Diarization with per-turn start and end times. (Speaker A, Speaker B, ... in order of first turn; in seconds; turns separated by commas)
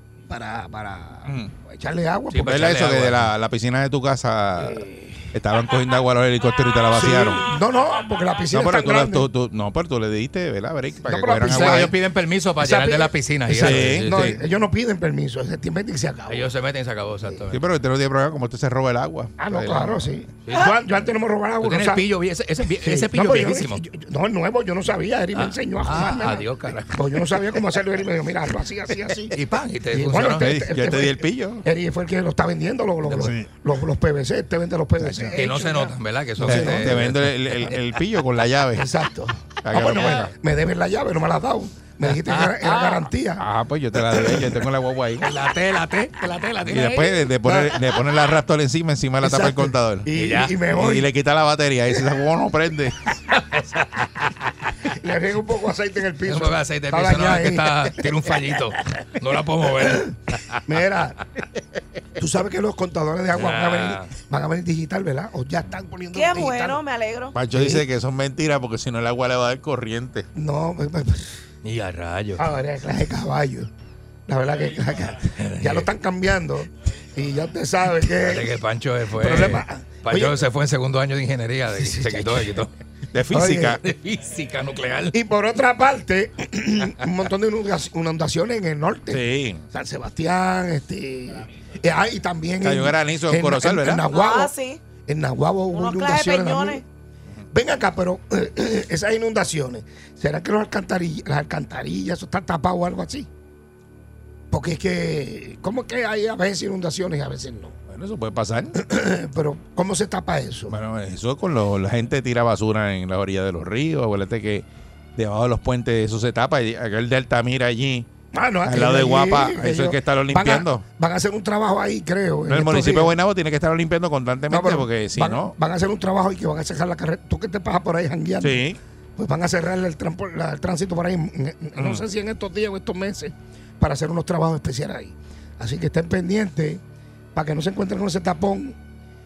Speaker A: 0.3-2.9, Speaker B: 1.2-1.5, Speaker C: 2.3-3.3, Speaker B: 2.3-4.8, Speaker A: 4.6-5.2, Speaker B: 5.3-7.5, Speaker A: 6.9-9.3, Speaker B: 8.5-11.9, Speaker A: 11.0-11.9, Speaker C: 11.4-14.3, Speaker A: 12.6-16.5, Speaker B: 13.5-14.4, Speaker C: 16.3-17.6, Speaker B: 17.5-20.1, Speaker A: 19.4-22.1, Speaker C: 20.5-20.8, Speaker C: 21.6-23.8, Speaker A: 22.8-29.4, Speaker C: 25.3-27.3, Speaker C: 29.3-30.5, Speaker A: 29.9-37.0, Speaker B: 30.3-31.6, Speaker C: 33.0-33.3, Speaker B: 33.2-33.5, Speaker B: 35.0-35.4, Speaker C: 35.3-37.7, Speaker B: 36.4-38.9, Speaker A: 38.8-43.5, Speaker B: 39.6-40.3, Speaker C: 39.8-40.3, Speaker C: 42.1-43.1, Speaker B: 43.4-45.3, Speaker C: 45.2-47.2, Speaker B: 46.6-50.1, Speaker A: 47.5-47.8, Speaker A: 49.2-51.1, Speaker C: 50.1-50.6, Speaker B: 50.7-53.0, Speaker C: 53.3-54.3, Speaker A: 54.9-58.1, Speaker C: 56.2-60.6, Speaker A: 59.8-61.2, Speaker A: 62.2-66.8, Speaker C: 63.3-64.1, Speaker D: 66.1-67.4, Speaker B: 67.3-70.3, Speaker A: 67.5-67.8, Speaker A: 70.3-71.4, Speaker C: 71.6-72.4, Speaker A: 72.4-73.7, Speaker A: 74.3-78.5, Speaker C: 75.4-75.9, Speaker C: 78.2-82.7, Speaker A: 79.2-80.4, Speaker A: 81.8-82.6, Speaker B: 83.1-83.8, Speaker A: 83.3-83.8, Speaker C: 83.8-85.2, Speaker A: 85.1-96.8, Speaker B: 89.1-89.6, Speaker B: 92.6-94.0, Speaker D: 94.1-94.8, Speaker D: 95.7-96.8, Speaker A: 97.5-103.3, Speaker A: 104.5-107.8, Speaker B: 107.9-108.8, Speaker A: 108.8-110.8, Speaker B: 110.7-114.7, Speaker B: 115.2-118.1, Speaker A: 118.3-123.1, Speaker B: 118.7-120.8, Speaker B: 122.5-125.5, Speaker A: 124.5-128.6, Speaker B: 128.4-128.8, Speaker A: 129.2-136.8, Speaker B: 131.8-132.0, Speaker A: 137.3-138.8